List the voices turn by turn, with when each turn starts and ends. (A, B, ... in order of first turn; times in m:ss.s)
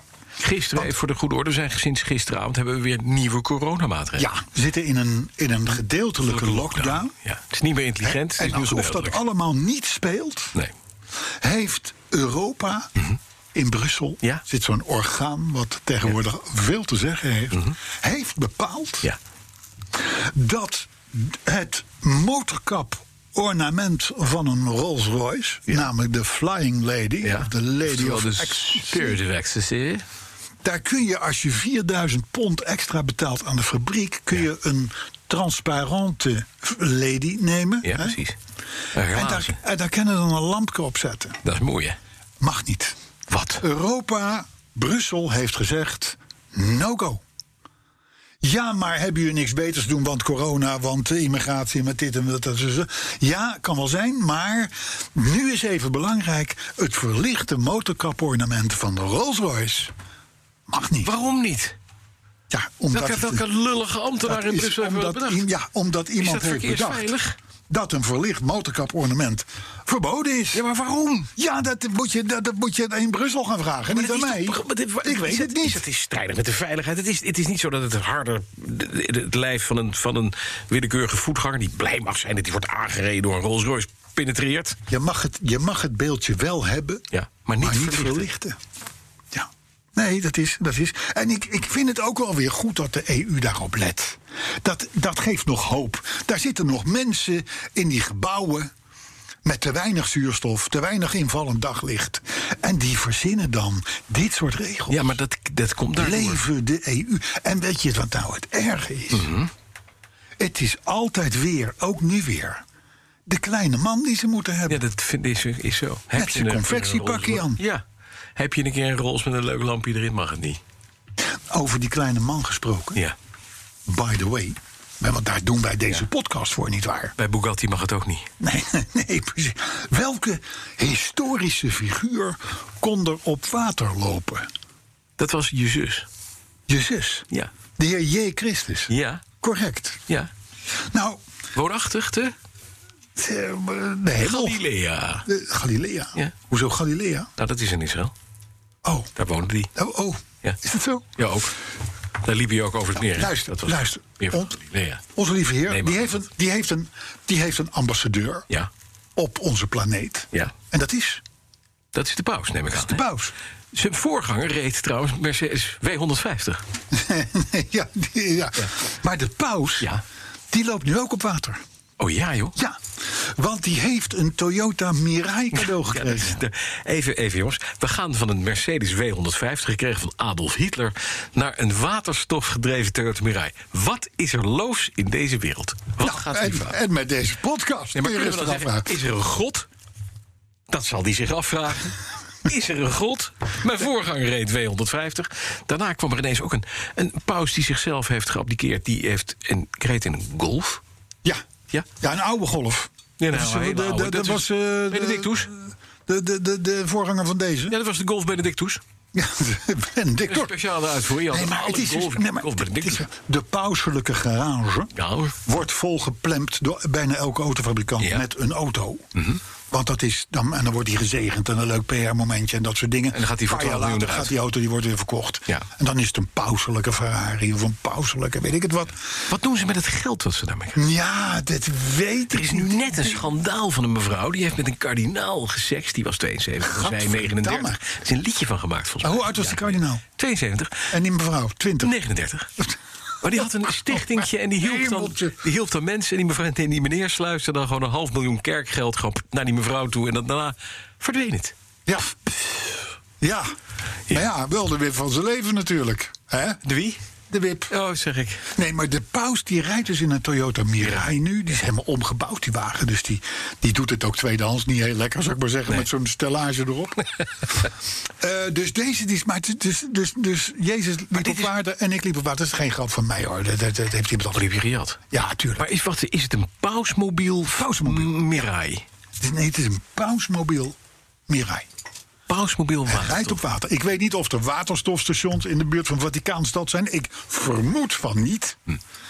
0:00.4-0:04.3 A
0:04.2-0:07.1 B
0:06.2-0:09.2 A
0:08.0-0:10.6 B
0:11.4-0:12.9 B
0:13.5-0:19.1 B
0:20.0-0:29.2 B
0:27.2-0:30.0 A
0:30.6-0:38.2 B
0:37.8-0:38.4 A
0:39.0-0:39.6 A
0:39.1-0:41.4 B
0:41.4-0:42.0 A
0:42.4-0:43.0 B
0:43.3-0:43.6 A
0:43.6-0:47.2 B
0:48.4-0:59.9 B
1:00.7-1:01.1 B
1:01.0-1:01.8 A
1:02.5-1:03.4 B
1:02.9-1:05.4 A
1:04.2-1:07.1 B
1:06.2-1:07.4 A
1:07.7-1:10.6 B
1:10.5-1:11.3 A
1:11.4-1:15.8 B
1:13.9-1:24.8 A
1:24.9-1:27.0 B
1:27.1-1:28.3 A
1:27.6-1:28.6 B
1:29.3-1:38.7 B
1:39.4-1:45.2 B
1:44.9-1:46.4 A
1:46.0-1:49.3 B
1:49.1-1:49.5 A
1:50.4-1:52.6 B
1:53.3-1:54.8 B
1:54.7-1:57.8 A
1:56.1-1:57.6 B
1:58.4-2:00.6 A
2:01.5-2:03.0 B
2:03.9-2:07.2 B
2:07.2-2:08.3 A
2:08.4-2:14.5 B
2:15.2-2:16.1 A
2:16.7-2:20.0 B
2:18.9-2:19.2 A
2:20.9-2:21.2 B
2:21.6-2:22.4 A
2:23.2-2:24.6 B
2:24.2-2:25.3 A
2:25.3-2:27.3 B
2:27.4-2:28.1 A
2:28.8-2:29.1 B
2:29.2-2:29.7 A
2:29.8-2:31.1 B
2:31.2-2:31.6 A
2:32.2-2:35.0 A
2:33.0-2:34.6 B
2:35.1-2:38.5 B
2:35.7-2:36.2 A
2:39.2-2:41.2 B
2:41.9-2:43.0 A
2:42.8-2:43.3 B
2:43.7-2:46.6 A
2:46.9-2:49.9 B
2:50.5-2:51.6 B
2:52.0-2:52.6 A
2:52.6-2:56.4 B
2:55.6-3:06.8 A
3:06.0-3:08.9 B
3:07.9-3:09.7 A
3:10.7-3:11.9 A
3:12.5-3:20.8 A
3:22.0-3:27.7 B
3:23.2-3:25.5 A
3:27.7-3:28.8 A
3:29.1-3:30.6 B
3:30.3-3:33.1 A
3:31.3-3:34.9 B
3:35.0-3:35.4 A
3:35.4-3:39.1 B
3:39.2-3:39.4 A
3:39.7-3:49.0 B
3:43.1-3:44.3 A
3:49.3-3:50.8 A
3:50.8-3:53.2 B
3:52.3-4:00.9 A
3:56.6-3:57.8 B
3:59.0-4:00.0 B
4:00.9-4:01.9 B
4:01.8-4:02.5 A
4:03.2-4:11.5 A
4:03.4-4:05.4 B
4:11.9-4:12.2 B
4:13.2-4:13.5 B
4:14.1-4:16.6 B
4:16.6-4:17.0 A
4:17.3-4:17.7 B
4:17.7-4:18.5 A
4:18.5-4:27.0 B
4:20.8-4:21.6 A
4:28.2-4:34.5 B
4:31.1-4:31.5 A
4:34.4-4:35.0 A
4:35.1-4:35.7 B
4:35.6-4:38.8 A
4:37.5-4:38.1 B
4:39.2-4:40.8 B
4:41.3-4:41.7 B
4:42.3-4:43.4 A
4:42.9-4:48.6 B